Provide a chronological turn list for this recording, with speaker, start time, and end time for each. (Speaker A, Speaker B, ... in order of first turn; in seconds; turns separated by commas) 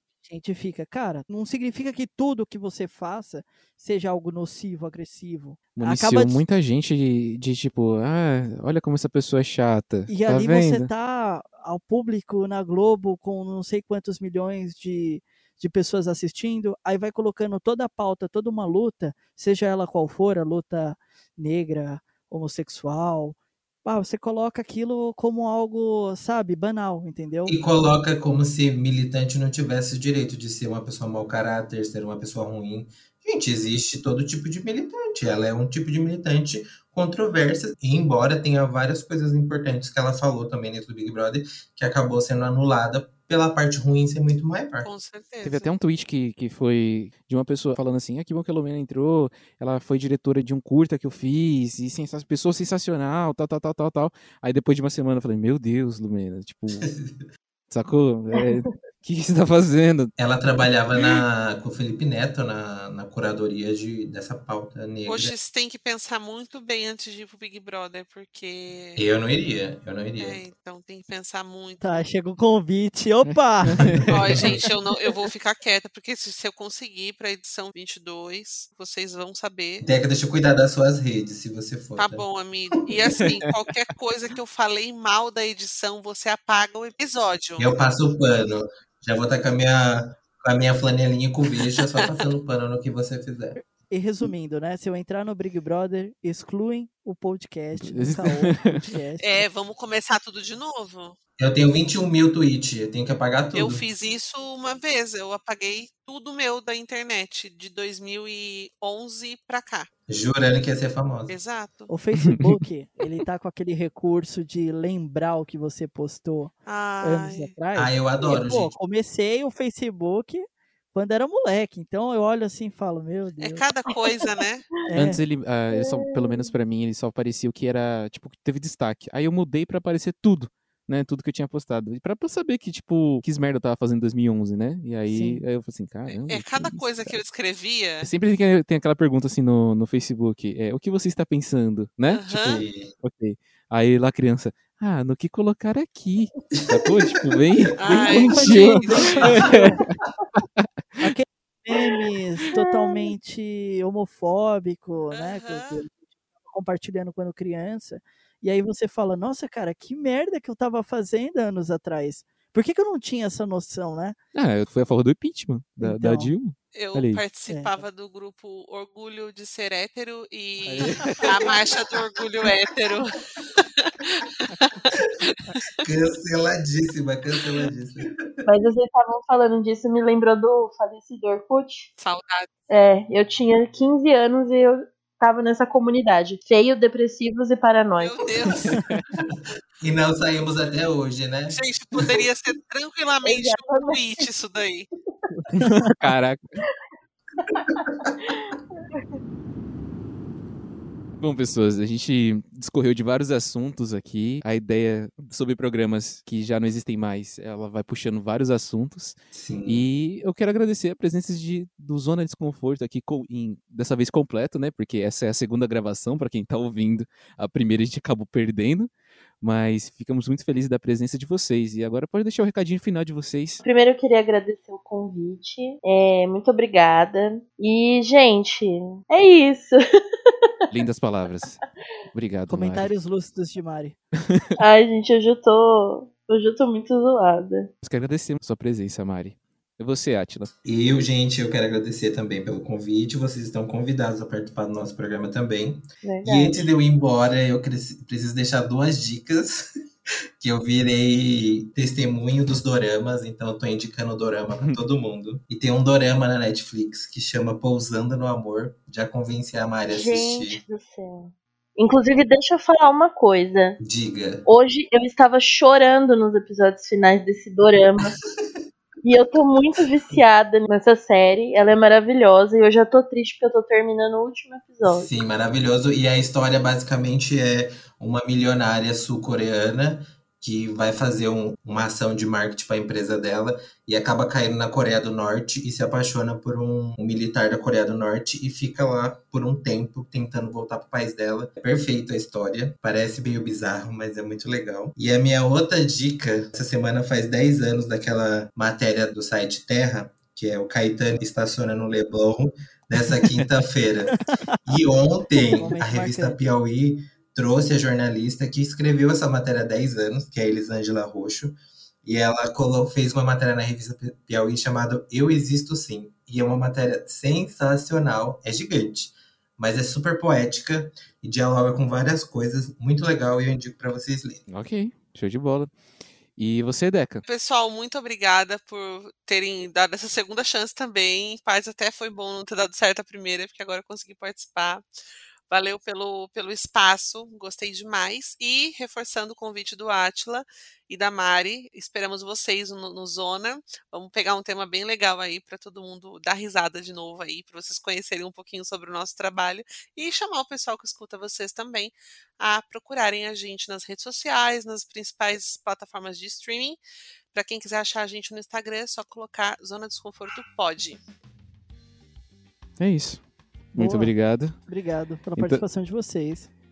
Speaker A: 0.2-6.4, Speaker B: 5.7-10.9, Speaker A: 10.1-27.6, Speaker C: 27.5-44.9, Speaker D: 44.8-45.7, Speaker B: 45.4-56.9, Speaker C: 56.7-57.2, Speaker B: 57.7-60.1, Speaker C: 60.2-65.3, Speaker D: 65.0-69.0, Speaker C: 69.0-70.4, Speaker D: 70.2-72.0, Speaker A: 71.8-74.4, Speaker B: 73.3-74.4, Speaker C: 73.8-74.5, Speaker D: 74.1-79.8, Speaker C: 79.8-82.2, Speaker D: 82.0-87.7, Speaker B: 83.2-83.5, Speaker C: 87.6-93.6, Speaker D: 91.8-92.3, Speaker A: 93.6-99.4, Speaker B: 97.7-98.8, Speaker D: 99.2-101.2, Speaker C: 101.4-103.8, Speaker D: 103.5-109.9, Speaker C: 110.1-111.3, Speaker D: 111.3-111.9, Speaker A: 111.9-123.7, Speaker B: 112.2-112.6, Speaker D: 116.7-117.5, Speaker C: 117.7-118.8, Speaker D: 123.4-124.8, Speaker A: 124.8-125.2, Speaker B: 124.9-137.2, Speaker E: 125.7-126.5, Speaker A: 135.1-135.4, Speaker D: 136.1-138.1, Speaker B: 138.0-151.1, Speaker D: 142.1-142.6, Speaker C: 142.4-142.9, Speaker C: 146.5-147.3, Speaker D: 147.8-149.3, Speaker A: 148.0-149.8, Speaker A: 151.0-164.2, Speaker E: 152.5-153.1, Speaker D: 155.1-155.8, Speaker B: 164.3-167.2, Speaker A: 165.8-166.3, Speaker D: 166.7-175.4, Speaker A: 167.5-167.8, Speaker B: 170.7-171.4, Speaker C: 175.8-178.4, Speaker E: 178.4-181.9, Speaker D: 182.0-182.5, Speaker E: 182.7-188.2, Speaker D: 188.0-188.8, Speaker B: 188.5-189.0, Speaker C: 189.8-192.2, Speaker D: 191.5-194.9, Speaker E: 193.2-194.0, Speaker B: 195.4-196.4, Speaker A: 195.6-195.9, Speaker E: 197.4-199.0, Speaker C: 197.7-198.1, Speaker B: 201.2-218.9, Speaker C: 209.3-209.8, Speaker B: 219.4-223.6, Speaker E: 223.6-230.7, Speaker B: 230.7-231.6, Speaker B: 232.1-232.9, Speaker A: 232.5-234.0, Speaker B: 234.3-234.6, Speaker E: 234.6-237.7, Speaker B: 237.8-240.5, Speaker C: 240.6-249.7, Speaker E: 246.0-246.7, Speaker C: 250.4-260.6, Speaker E: 259.9-263.8, Speaker C: 263.8-264.4, Speaker E: 264.4-268.2, Speaker E: 269.0-275.1, Speaker C: 274.9-324.4, Speaker B: 303.2-303.4, Speaker A: 304.2-304.6, Speaker A: 305.5-306.4, Speaker B: 324.5-325.7, Speaker B: 326.3-327.2, Speaker D: 327.2-334.8, Speaker D: 335.5-356.8, Speaker D: 357.3-361.0, Speaker B: 362.8-364.6, Speaker A: 363.8-364.1, Speaker A: 364.6-366.5, Speaker B: 365.4-365.6